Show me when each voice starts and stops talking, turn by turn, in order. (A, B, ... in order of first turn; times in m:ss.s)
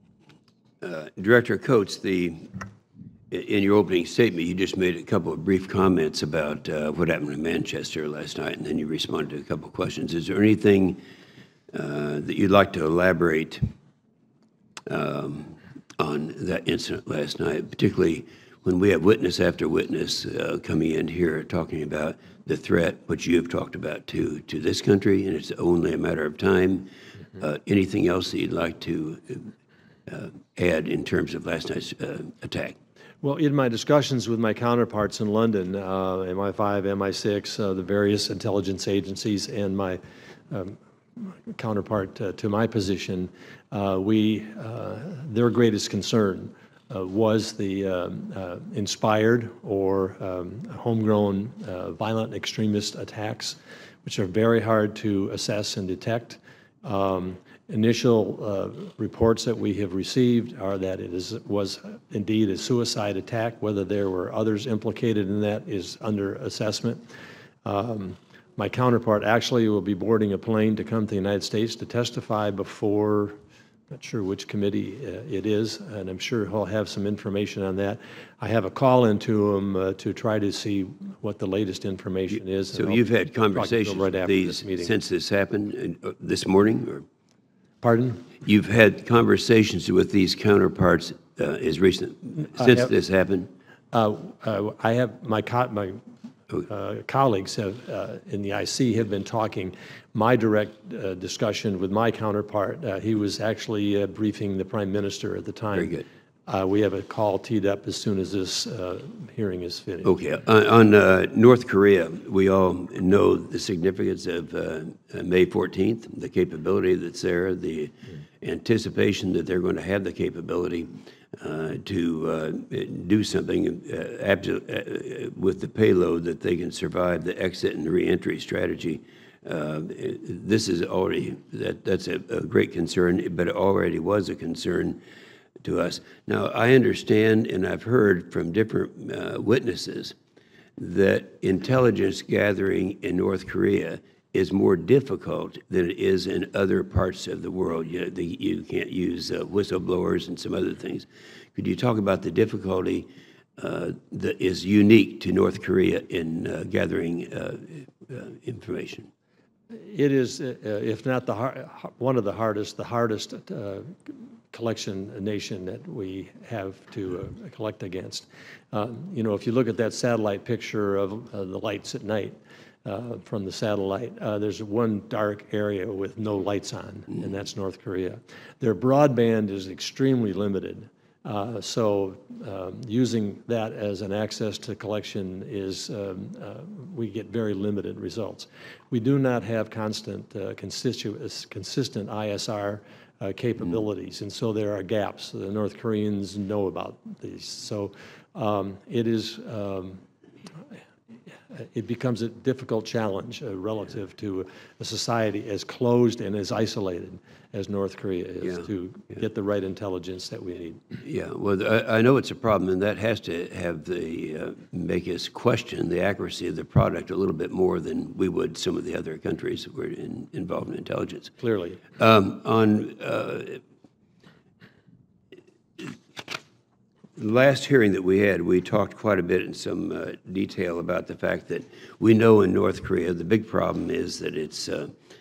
0:00.8-0:02.5 A
0:03.3-0:11.0 A
0:11.7-0:13.6 A
0:14.9-0:29.5 A
0:30.1-0:32.8 A
0:33.2-1:07.0 B
1:07.6-1:13.4 B
1:13.9-1:23.0 B
1:22.7-1:27.0 A
1:23.5-1:24.9 B
1:27.8-1:28.2 B
1:28.4-1:33.5 A
1:32.6-1:32.9 B
1:33.9-1:36.0 B
1:36.6-1:50.1 B
1:45.7-1:46.0 A
1:50.0-2:15.0 A
2:15.6-2:20.2 A
2:20.8-2:33.0 A
2:33.6-2:39.1 A
2:39.7-3:20.0 B
3:21.5-3:30.8 B
3:31.0-3:41.3 A
3:41.4-3:41.8 B
3:42.0-3:43.6 A
3:47.2-3:54.9 A